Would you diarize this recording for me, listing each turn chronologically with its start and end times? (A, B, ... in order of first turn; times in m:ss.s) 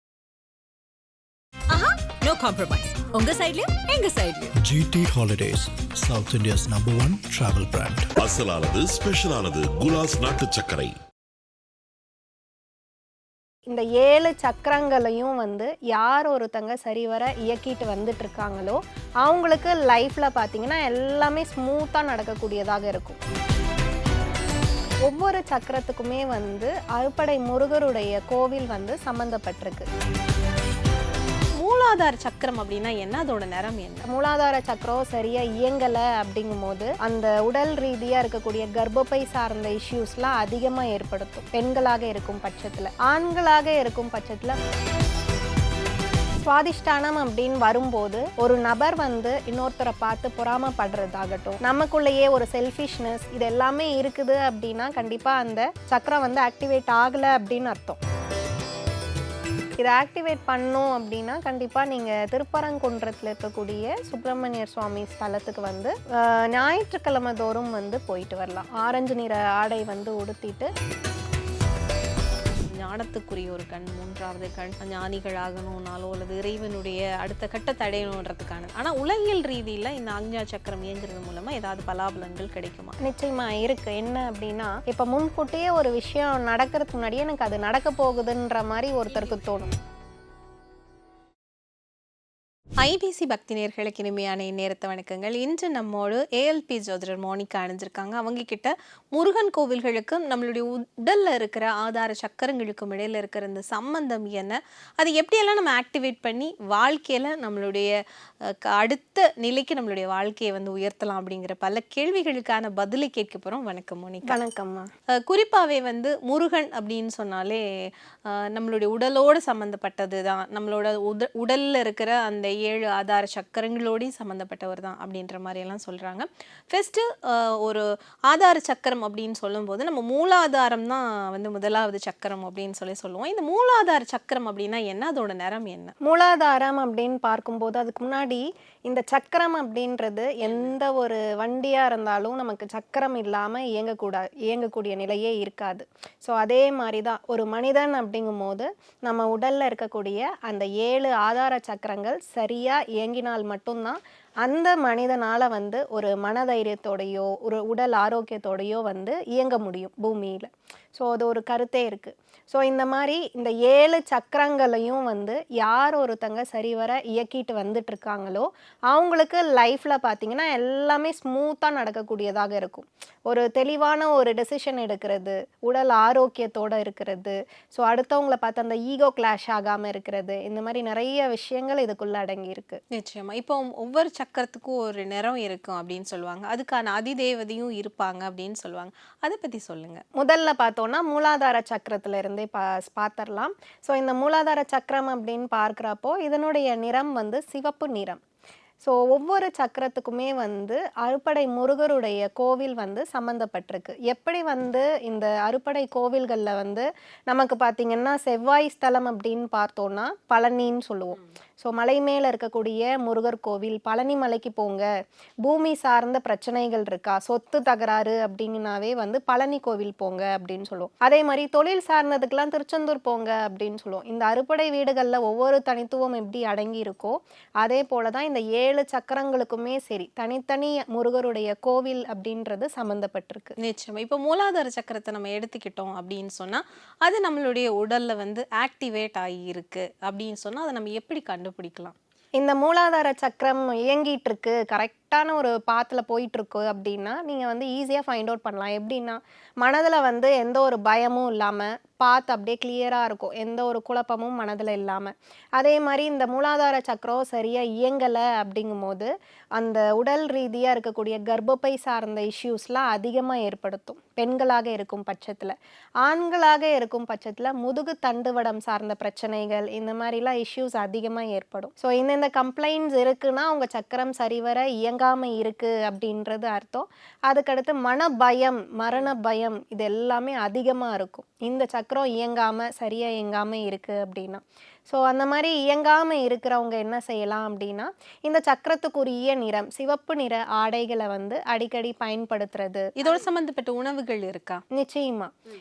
0:01.7-0:04.5 A
0:04.6-0:08.1 B
0:08.2-0:11.0 C
0:13.7-0:23.2 D
0:25.0-0:29.9 D
0:31.6-0:34.0 E
0:34.0-0:44.6 D
0:46.4-0:58.0 D
0:59.8-1:10.7 D
1:12.7-1:23.0 E
1:23.0-1:29.7 D
1:32.8-1:54.4 E
1:54.2-1:54.9 D
1:55.2-2:15.9 E
2:16.0-3:02.8 D
2:20.4-2:20.7 E
3:02.9-3:10.0 E
3:10.2-3:18.2 D
3:18.8-3:34.9 D
3:35.4-3:53.6 D
3:53.6-4:01.9 E
4:02.4-4:52.9 D
4:53.0-4:54.6 E
4:54.7-4:55.3 D